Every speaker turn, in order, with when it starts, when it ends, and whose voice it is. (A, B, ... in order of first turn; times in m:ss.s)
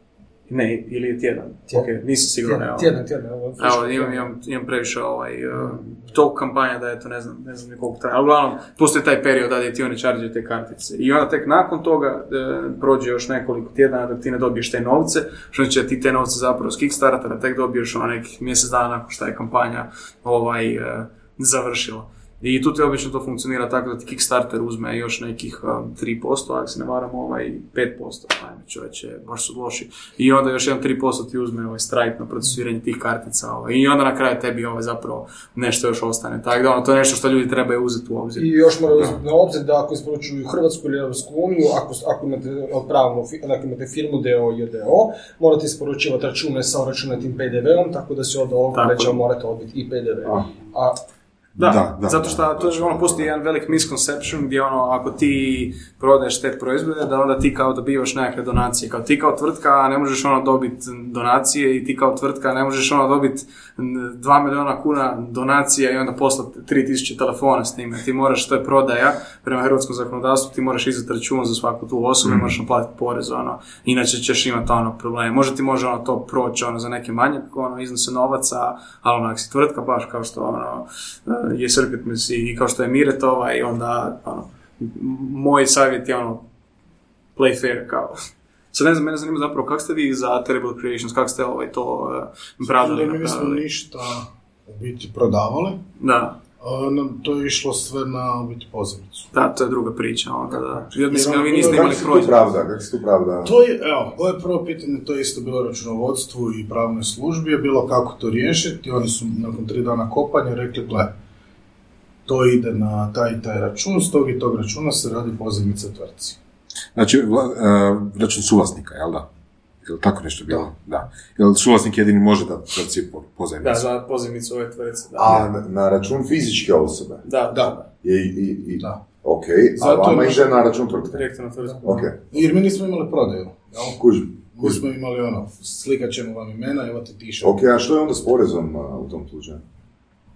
0:00.5-0:02.9 A
0:02.4-0:04.3 B
0:03.6-0:38.5 A
0:38.4-0:51.0 B
0:48.7-0:49.2 A
0:51.6-0:53.3 C
0:51.6-1:26.4 A
1:27.4-1:28.2 A
1:28.7-1:33.6 A
1:32.6-1:35.8 D
1:36.0-1:36.4 A
1:36.6-1:39.3 D
1:39.3-1:42.4 A
1:41.1-1:42.1 D
1:41.6-1:43.5 E
1:43.4-1:51.2 D
1:52.3-1:56.4 D
1:57.0-1:59.3 C
1:59.8-2:03.9 C
2:03.6-2:05.4 A
2:05.2-2:07.2 E
2:07.2-2:07.7 A
2:07.8-2:11.3 E
2:09.8-2:10.4 D
2:09.8-2:10.5 A
2:11.1-2:12.1 A
2:11.8-2:12.2 E
2:12.3-2:17.6 D
2:14.0-2:14.8 E
2:17.4-2:19.6 E